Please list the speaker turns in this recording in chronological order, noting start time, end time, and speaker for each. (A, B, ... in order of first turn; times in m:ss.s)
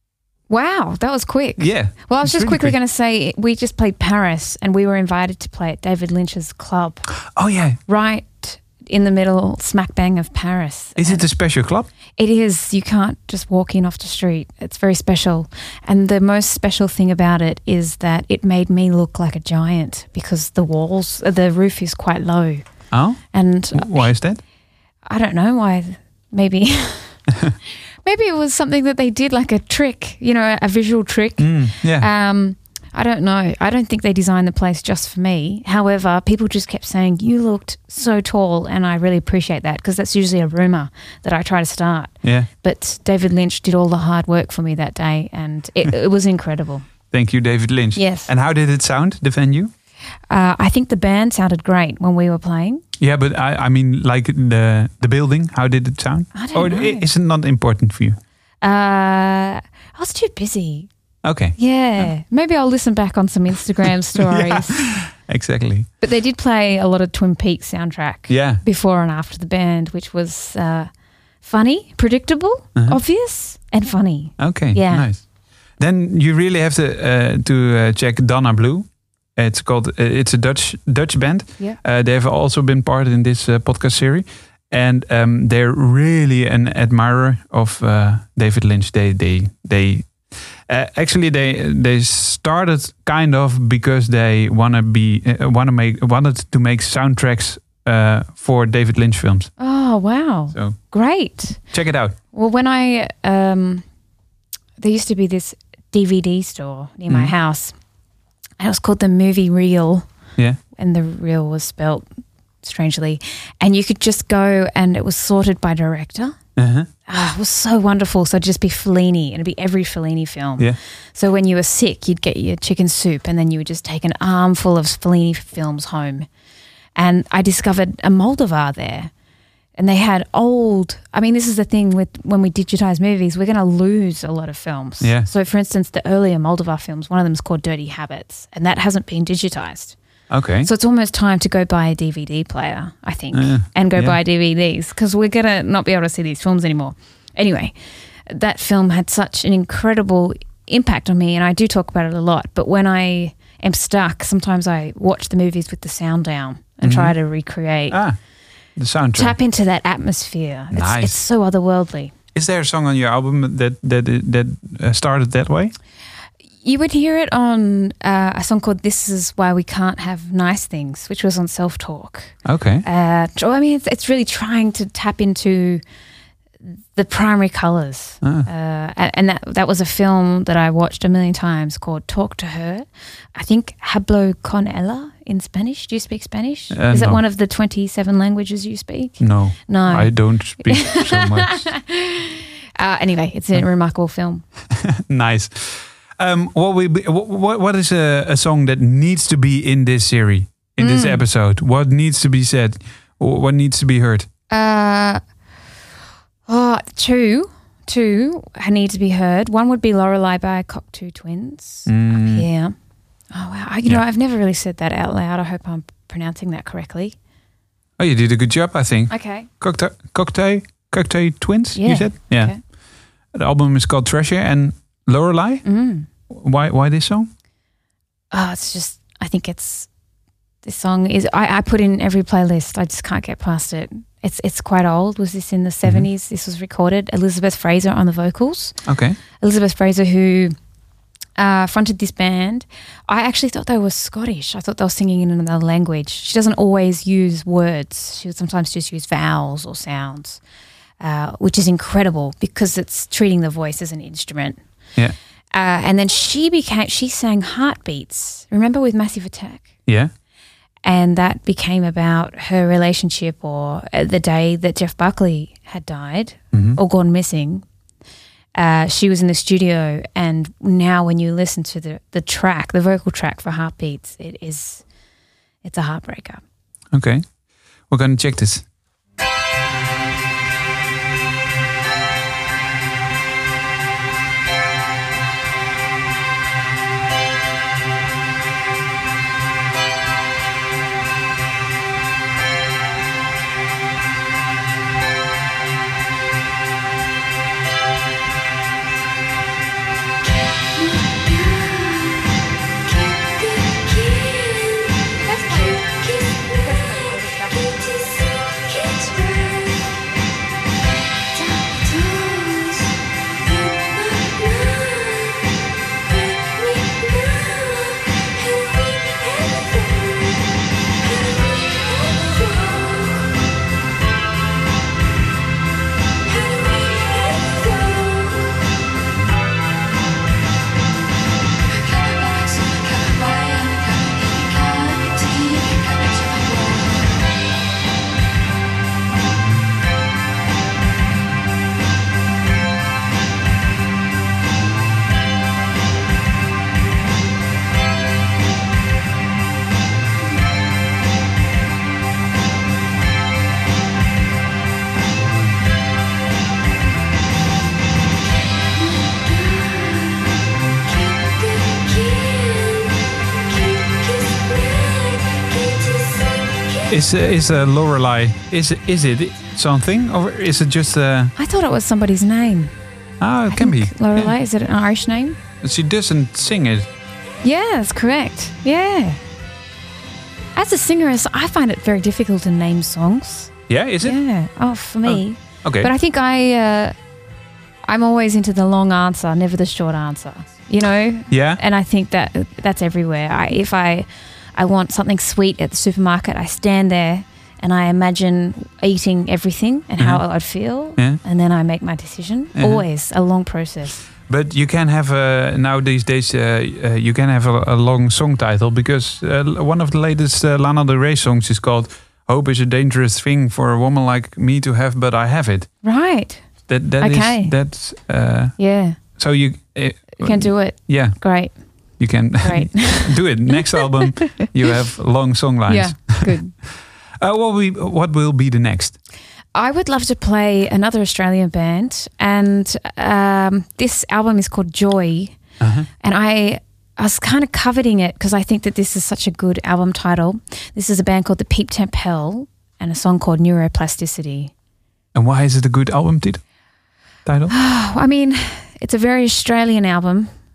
0:00.5-0:07.1 A
0:01.6-0:02.8 B
0:07.3-0:07.8 B
0:07.9-0:11.3 A
0:11.0-0:11.9 B
0:12.2-0:22.6 A
0:22.9-0:24.4 B
0:23.3-0:24.2 A
0:25.0-0:27.3 A
0:28.0-0:46.8 A
0:31.4-0:32.1 B
0:42.2-0:42.5 B
0:47.1-0:49.7 B
0:47.9-0:48.3 A
0:50.3-0:52.8 A
0:53.0-0:58.2 B
0:56.3-0:57.0 A
0:58.6-1:00.9 A
1:01.2-1:02.1 B
1:01.6-1:04.8 A
1:04.1-1:05.9 B
1:06.0-1:10.9 A
1:08.3-1:08.6 B
1:11.4-1:15.1 A
1:14.4-1:15.2 B
1:15.8-1:39.5 B
1:39.6-1:41.6 A
1:41.7-1:42.2 B
1:42.3-1:43.8 A
1:44.8-1:47.7 A
1:47.1-1:47.3 B
1:48.6-1:50.1 A
1:50.8-1:52.0 A
1:52.6-1:56.4 A
1:56.6-1:56.9 B
1:57.1-2:06.3 A
2:07.0-2:09.1 A
2:09.8-2:20.0 A
2:15.0-2:15.3 B
2:20.3-2:20.7 B
2:20.6-2:27.7 A
2:23.3-2:24.2 B
2:28.3-2:38.0 A
2:36.8-2:37.2 B
2:37.9-2:38.2 B
2:38.8-2:39.4 B
2:39.2-2:42.1 A
2:40.7-2:41.2 B
2:42.3-2:45.7 B
2:46.6-2:55.8 A
2:52.4-2:52.8 B
2:56.9-3:14.4 A
2:58.2-2:58.5 B
3:06.7-3:07.2 B
3:09.2-3:11.7 B
3:14.7-3:24.3 B
3:20.8-3:21.2 A
3:24.5-3:25.2 A
3:26.5-3:32.7 A
3:31.9-3:32.5 B
3:33.3-3:37.2 A
3:38.0-3:42.5 B
3:39.1-3:39.5 A
3:41.7-3:42.6 A
3:43.3-3:45.6 B
3:45.6-3:46.1 A
3:46.3-3:47.3 B
3:48.3-3:49.9 A
3:50.6-3:58.8 A
3:58.8-3:59.2 B
3:59.4-4:00.5 A
4:01.4-4:10.4 A
4:11.0-4:14.6 A
4:15.5-4:19.7 A
4:20.8-4:27.6 A
4:26.5-4:26.8 B
4:28.5-4:34.8 A
4:35.6-4:36.4 A
4:36.9-4:37.3 B
4:37.9-4:38.6 B
5:00.7-5:02.2 A
5:02.9-5:04.6 A
5:05.1-5:10.0 A
5:11.3-5:12.9 A
5:13.4-5:15.5 A
5:16.1-5:20.4 A
5:21.0-5:23.3 A
5:26.3-5:28.6 A
5:34.7-5:35.7 A
6:01.2-6:02.7 A
6:03.8-6:05.9 A
6:06.9-6:11.3 B
6:11.4-6:12.7 A
6:13.2-6:14.3 B
6:13.5-6:15.4 A
6:15.6-6:16.9 B
6:17.4-6:19.2 A
6:20.6-6:26.9 A
6:23.7-6:24.2 B
6:25.0-6:25.9 B
6:27.9-6:44.0 A
6:31.3-6:31.6 B
6:40.0-6:40.2 B
6:42.6-6:42.8 B
6:44.3-6:55.7 B
6:55.8-6:56.4 A
6:56.7-7:01.2 B
6:57.0-6:57.6 A
6:58.6-6:59.0 A
7:00.2-7:01.6 A
7:02.0-7:06.4 B
7:02.4-7:04.5 A
7:05.7-7:06.5 A
7:07.2-7:09.0 B
7:09.5-7:15.4 A
7:15.6-7:15.9 B
7:16.0-7:24.5 A
7:25.1-7:26.4 B
7:27.2-7:27.5 B
7:27.5-7:30.3 A